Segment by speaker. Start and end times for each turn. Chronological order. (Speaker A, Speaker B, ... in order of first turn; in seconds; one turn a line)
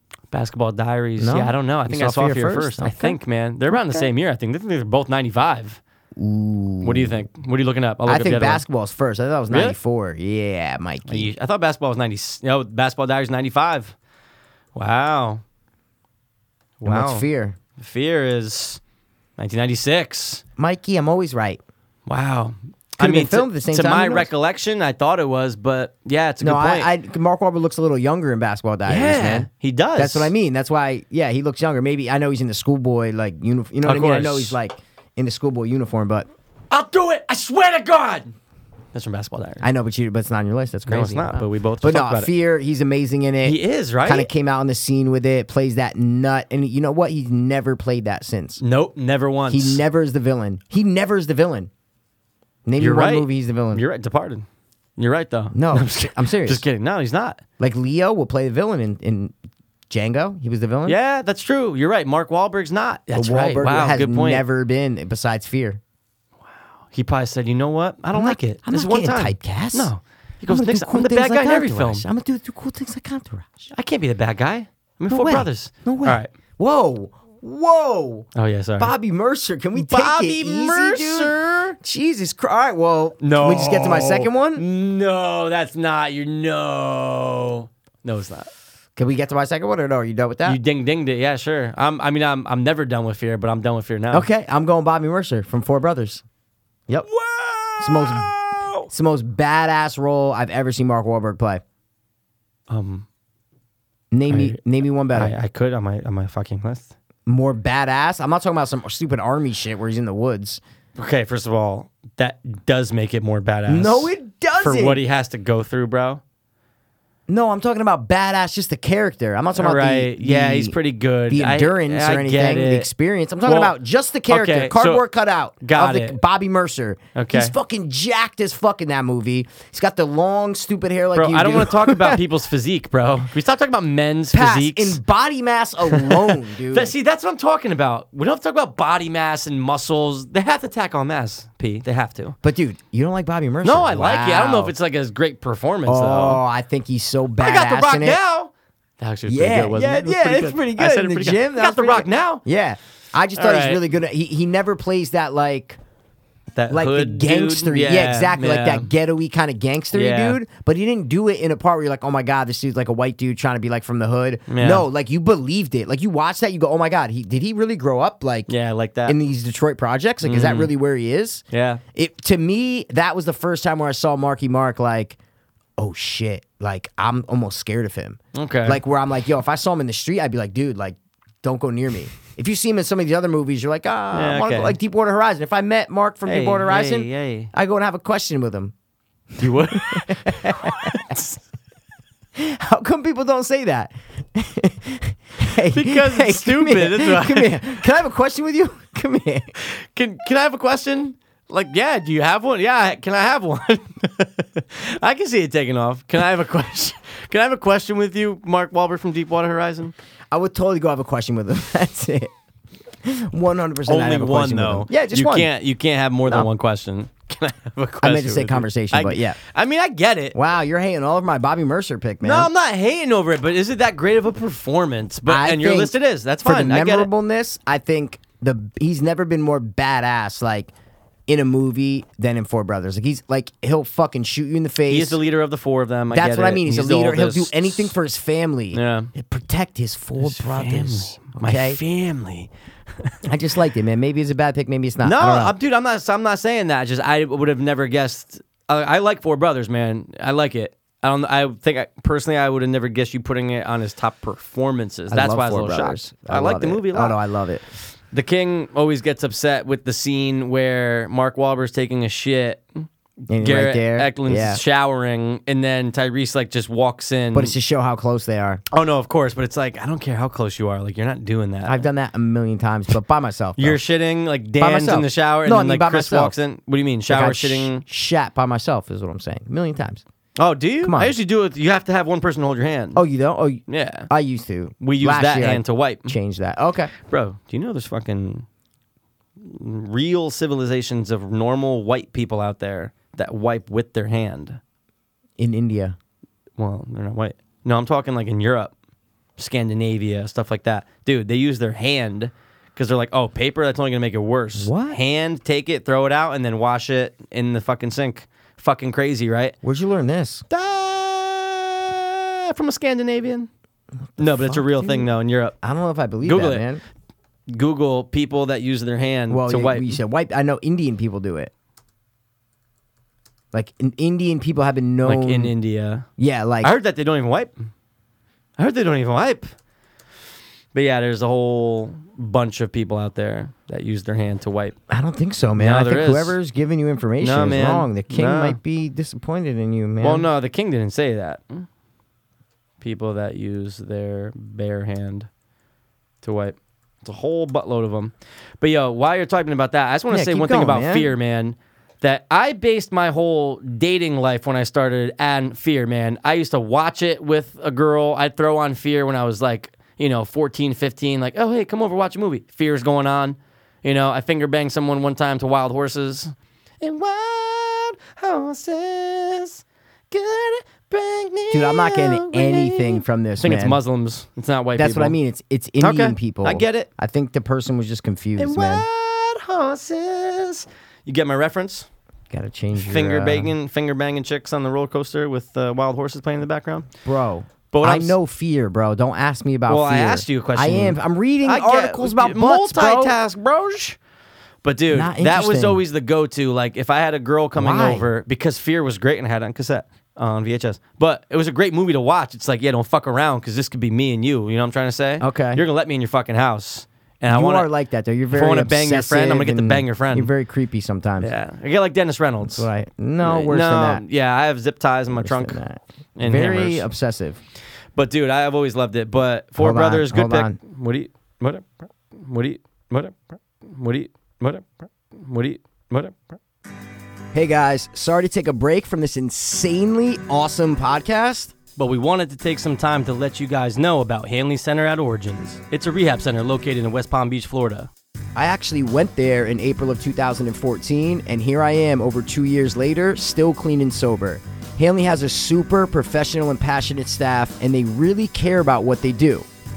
Speaker A: 0.3-5.8
Speaker B: 1.2-3.2
Speaker B: 3.7-4.1
Speaker B: 6.2-7.2
Speaker A: 6.8-8.6
Speaker B: 8.1-11.3
Speaker A: 9.5-9.8
Speaker A: 11.1-13.9
Speaker A: 14.8-15.4
Speaker A: 16.8-17.3
Speaker B: 16.8-17.6
Speaker A: 17.8-18.8
Speaker A: 19.4-20.4
Speaker B: 20.6-21.6
Speaker A: 22.1-26.9
Speaker B: 23.0-24.3
Speaker B: 26.4-36.3
Speaker A: 28.9-30.3
Speaker A: 33.9-34.6
Speaker A: 36.7-38.3
Speaker A: 38.9-39.7
Speaker B: 39.6-48.6
Speaker A: 40.9-42.3
Speaker A: 43.4-44.3
Speaker A: 48.6-49.8
Speaker B: 49.5-51.7
Speaker B: 52.7-53.8
Speaker A: 52.8-54.5
Speaker A: 55.0-57.4
Speaker B: 55.5-56.6
Speaker B: 57.6-59.3
Speaker B: 59.9-61.0
Speaker A: 60.9-64.4
Speaker B: 63.1-65.8
Speaker A: 66.9-72.1
Speaker B: 68.1-69.9
Speaker B: 70.5-73.7
Speaker A: 73.7-76.3
Speaker B: 75.1-84.6
Speaker A: 78.3-78.9
Speaker A: 79.8-81.8
Speaker A: 83.2-88.5
Speaker B: 89.0-90.6
Speaker A: 90.4-94.3
Speaker B: 94.1-96.2
Speaker A: 97.0-98.9
Speaker B: 97.8-98.3
Speaker B: 98.9-101.6
Speaker A: 102.7-103.1
Speaker B: 104.1-105.3
Speaker A: 104.3-104.6
Speaker A: 105.1-106.9
Speaker B: 107.3-110.6
Speaker A: 111.0-116.2
Speaker B: 113.7-115.0
Speaker B: 117.3-120.8
Speaker A: 119.5-122.9
Speaker B: 121.3-132.2
Speaker A: 123.5-123.8
Speaker A: 124.3-125.0
Speaker A: 125.6-126.2
Speaker A: 127.2-127.5
Speaker A: 131.2-135.0
Speaker B: 134.3-136.9
Speaker A: 135.9-142.4
Speaker B: 142.4-144.7
Speaker A: 143.6-146.4
Speaker B: 145.9-148.2
Speaker A: 147.4-152.4
Speaker B: 149.3-155.8
Speaker A: 153.4-153.8
Speaker A: 156.6-158.9
Speaker B: 156.7-168.5
Speaker A: 159.9-160.4
Speaker A: 164.5-164.8
Speaker A: 168.5-169.2
Speaker B: 169.1-171.4
Speaker A: 170.2-170.7
Speaker A: 171.5-171.8
Speaker B: 171.9-175.2
Speaker B: 175.8-188.7
Speaker A: 178.3-178.8
Speaker A: 184.1-184.8
Speaker A: 186.3-187.5
Speaker A: 189.4-191.4
Speaker B: 189.4-191.0
Speaker B: 192.4-199.5
Speaker A: 195.7-197.8
Speaker A: 199.6-209.9
Speaker B: 210.3-212.3
Speaker B: 213.0-215.5
Speaker A: 213.9-220.4
Speaker B: 218.0-219.4
Speaker B: 220.3-222.5
Speaker A: 222.2-227.1
Speaker B: 225.3-230.7
Speaker B: 231.3-235.2
Speaker A: 234.9-237.9
Speaker B: 236.1-241.8
Speaker A: 238.7-239.1
Speaker A: 240.2-242.5
Speaker B: 243.2-245.6
Speaker A: 245.0-257.2
Speaker B: 255.1-257.6
Speaker A: 258.1-267.6
Speaker B: 263.3-264.6
Speaker B: 267.3-268.6
Speaker A: 268.7-271.9
Speaker B: 271.7-273.8
Speaker A: 273.6-277.8
Speaker B: 274.6-276.4
Speaker B: 277.1-280.0
Speaker A: 280.4-283.0
Speaker B: 280.8-281.1
Speaker B: 282.9-286.9
Speaker A: 283.7-284.1
Speaker A: 284.8-286.1
Speaker A: 287.0-288.5
Speaker A: 289.4-294.6
Speaker B: 295.4-296.0
Speaker A: 296.6-298.7
Speaker A: 299.4-309.6
Speaker B: 304.6-305.0
Speaker B: 309.6-310.4
Speaker A: 310.5-313.5
Speaker B: 314.1-315.1
Speaker A: 314.2-315.6
Speaker B: 315.6-316.8
Speaker A: 316.2-316.6
Speaker A: 317.5-320.0
Speaker B: 319.3-321.5
Speaker B: 323.5-325.5
Speaker A: 325.1-326.1
Speaker B: 326.2-326.7
Speaker A: 326.6-327.5
Speaker A: 328.6-329.5
Speaker A: 330.7-334.8
Speaker B: 334.9-340.3
Speaker A: 335.6-336.4
Speaker A: 337.2-338.6
Speaker A: 340.0-341.6
Speaker A: 342.8-345.3
Speaker A: 346.2-375.2
Speaker B: 350.1-351.1
Speaker B: 371.5-373.8
Speaker B: 374.8-378.9
Speaker A: 375.8-376.9
Speaker A: 378.4-381.9
Speaker B: 382.3-383.5
Speaker A: 382.8-386.9
Speaker B: 387.1-393.2
Speaker A: 387.7-388.2
Speaker A: 389.7-394.0
Speaker A: 394.6-407.7
Speaker B: 394.9-395.8
Speaker B: 397.6-398.1
Speaker B: 405.2-405.6
Speaker B: 407.3-411.3
Speaker A: 408.3-410.3
Speaker A: 411.2-412.7
Speaker B: 412.4-414.0
Speaker A: 413.2-415.6
Speaker B: 415.1-417.4
Speaker A: 416.2-416.9
Speaker A: 418.0-426.4
Speaker B: 419.6-420.6
Speaker B: 427.3-431.5
Speaker A: 431.8-437.9
Speaker B: 438.4-449.5